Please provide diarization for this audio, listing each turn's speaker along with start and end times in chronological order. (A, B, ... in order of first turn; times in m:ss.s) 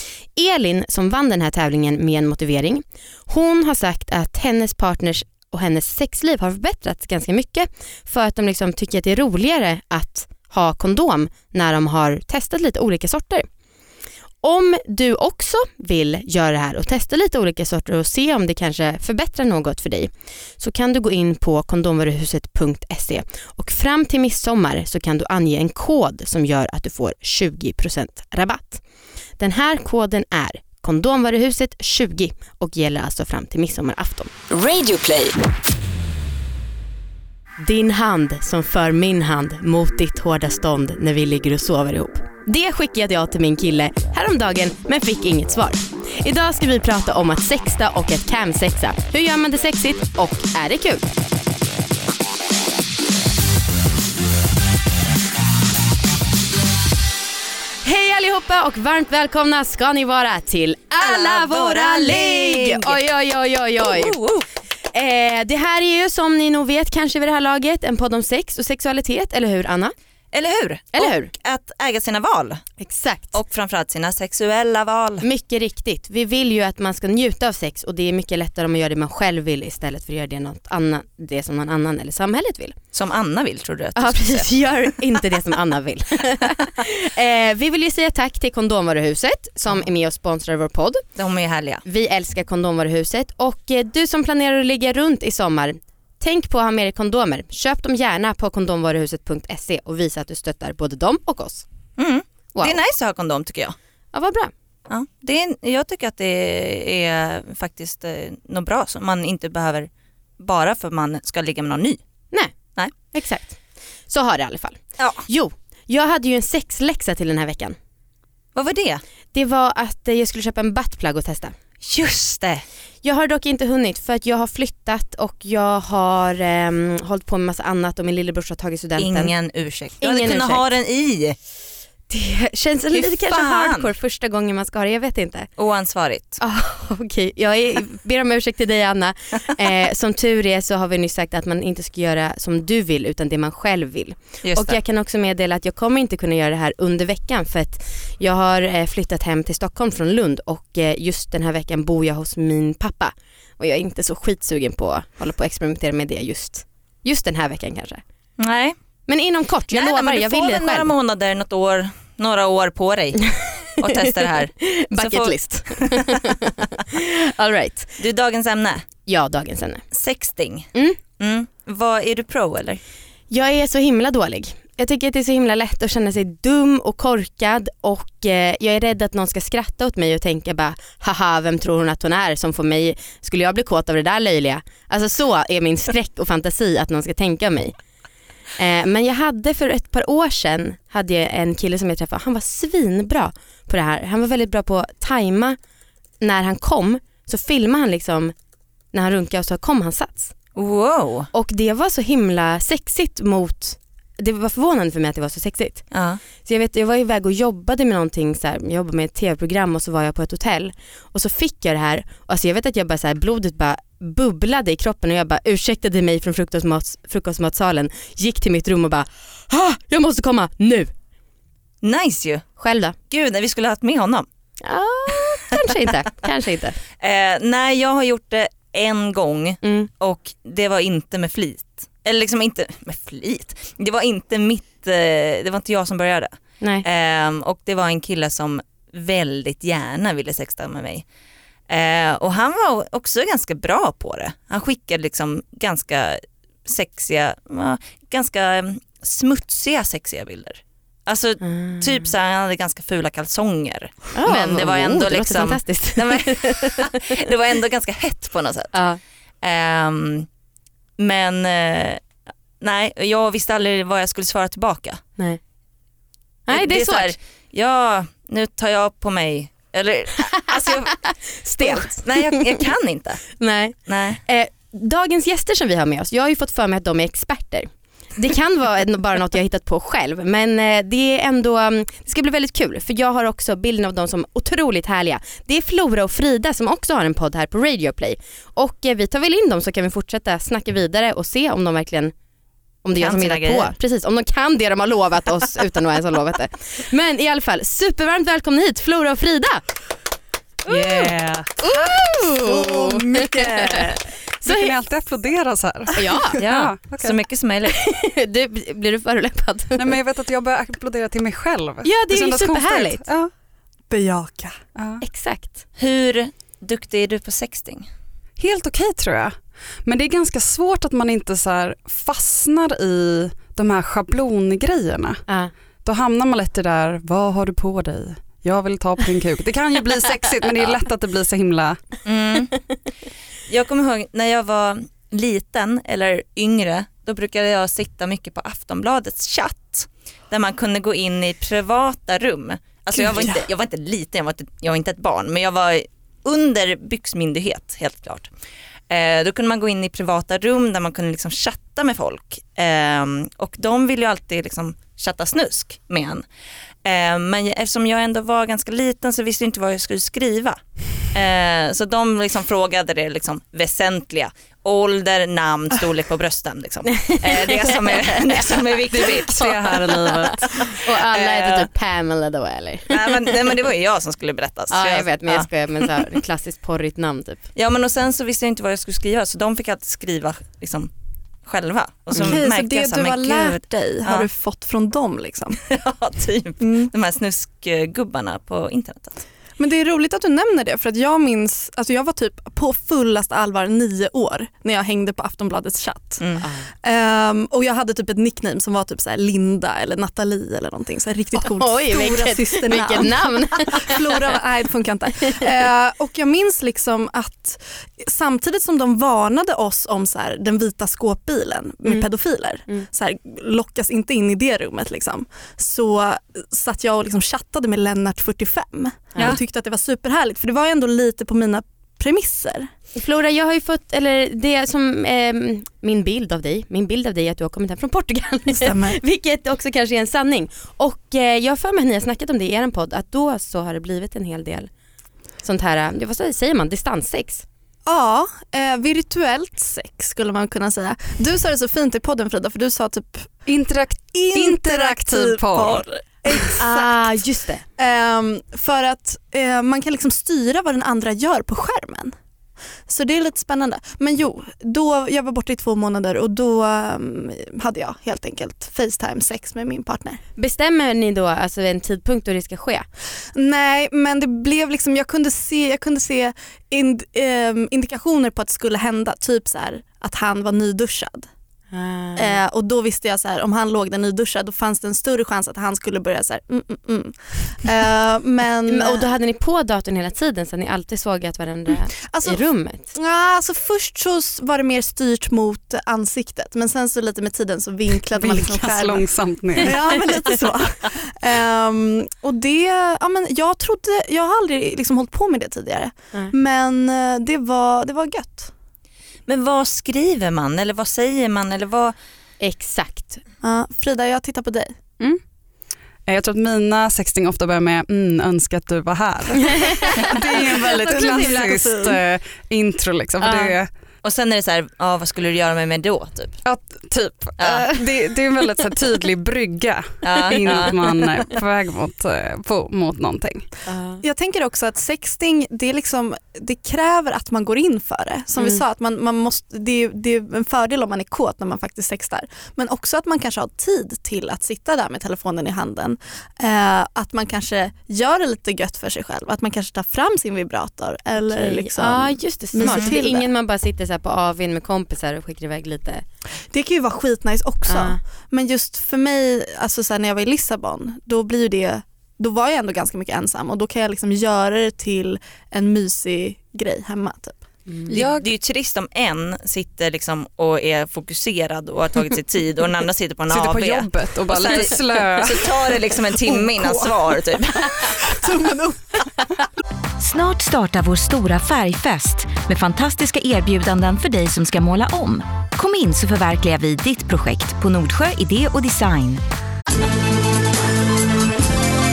0:00.3-0:13.5 A
0:14.4-0:28.8 A
0:29.4-0:34.3 A
0:34.5-0:35.0 B
0:34.7-0:35.3 C
0:37.6-0:51.1 A
0:57.8-1:04.2 A
1:01.0-1:03.0 B
1:03.8-1:04.4 B
1:04.9-1:09.9 A
1:10.3-1:12.6 B
1:10.9-1:11.3 A
1:12.8-1:13.4 A
1:13.3-1:15.2 B
1:15.2-1:22.8 A
1:22.9-1:24.5 B
1:24.0-1:31.0 A
1:31.2-1:31.8 B
1:31.8-1:41.6 A
1:42.0-1:43.7 B
1:44.1-1:44.5 A
1:44.9-1:52.0 B
1:53.1-1:53.6 A
1:54.1-1:57.8 A
1:58.5-1:59.0 B
1:59.3-2:01.6 A
2:01.8-2:02.6 B
2:03.0-2:09.3 A
2:09.0-2:11.4 B
2:10.0-2:10.6 A
2:12.1-2:15.5 A
2:12.9-2:13.9 B
2:15.6-2:16.4 B
2:16.4-2:38.0 A
2:24.4-2:24.8 B
2:38.4-2:38.8 B
2:39.1-2:40.9 A
2:39.7-2:46.3 B
2:43.8-2:48.0 A
2:48.0-2:48.8 B
2:49.0-2:49.8 A
2:49.9-2:52.8 B
2:53.3-3:07.7 A
3:08.6-3:15.6 A
3:16.2-3:18.3 A
3:18.9-3:20.3 A
3:20.6-3:21.3 B
3:21.3-3:25.9 A
3:25.9-3:26.2 B
3:26.4-3:40.9 A
3:41.8-3:42.4 B
3:42.6-3:42.9 A
3:43.1-3:44.3 B
3:44.6-3:46.8 A
3:47.0-4:01.0 B
3:49.6-3:49.9 A
3:56.6-3:56.8 A
4:01.7-4:18.7 B
4:11.4-4:11.8 A
4:14.1-4:17.2 A
4:18.7-4:19.0 A
4:19.4-4:20.3 B
4:21.0-4:22.0 B
4:22.6-4:25.0 B
4:26.5-4:27.2 A
4:26.5-4:31.0 B
4:30.4-4:32.6 A
4:31.6-4:33.2 B
4:33.4-4:52.1 A
4:33.9-4:34.2 B
4:52.8-4:59.6 A
4:53.0-4:53.7 B
5:00.7-5:04.7 A
5:02.4-5:03.9 D
5:04.4-5:07.2 E
5:05.9-5:06.4 A
5:06.4-5:07.8 B
5:07.6-5:10.0 A
5:09.8-5:13.3 E
5:11.8-5:13.0 A
5:13.9-5:14.6 D
5:14.7-5:15.0 E
5:15.0-5:15.6 A
5:15.8-5:17.9 B
5:18.4-5:25.2 E
5:25.3-5:25.5 A
5:25.8-5:31.8 E
5:32.0-5:32.6 B
5:33.5-5:48.3 B
5:48.9-5:56.2 B
5:56.8-6:00.6 B
6:01.1-6:11.7 B
6:06.9-6:08.5 A
6:08.9-6:10.8 E
6:10.6-6:13.4 A
6:12.9-6:16.2 B
6:14.7-6:17.4 A
6:17.5-6:20.9 B
6:21.4-6:24.3 B
6:22.1-6:25.6 D
6:25.6-6:29.2 B
6:29.6-6:36.3 D
6:36.2-6:36.5 B
6:36.8-7:02.7 D
6:41.3-6:44.4 A
7:02.9-7:14.7 A
7:08.5-7:09.0 D
7:15.4-7:17.4 A
7:17.8-7:23.4 D
7:23.5-7:25.8 E
7:24.1-7:27.2 D
7:26.6-7:27.6 A
7:27.8-7:32.1 D
7:32.9-7:40.2 D
7:40.4-7:42.8 A
7:43.3-7:51.3 D
7:51.7-7:52.4 A
7:52.2-7:59.1 D
7:58.7-8:02.9 A
8:02.0-8:18.5 D
8:08.2-8:09.8 E
8:19.3-8:22.0 B
8:22.4-8:23.2 A
8:23.4-8:24.7 D
8:26.1-8:33.7 E
8:29.5-8:30.1 A
8:30.1-8:32.0 D
8:33.2-8:33.5 A
8:34.0-8:36.4 B
8:36.4-8:43.5 E
8:37.4-8:37.6 B
8:40.0-8:41.0 B
8:43.7-8:44.0 A
8:44.0-9:03.3 D
9:01.2-9:06.0 A
9:02.6-9:02.9 B
9:06.5-9:17.4 D
9:07.6-9:08.0 A
9:17.7-9:18.0 A
9:17.9-9:18.3 E
9:17.9-9:27.9 B
9:23.3-9:25.5 E
9:28.0-9:29.0 D
9:30.0-9:39.2 C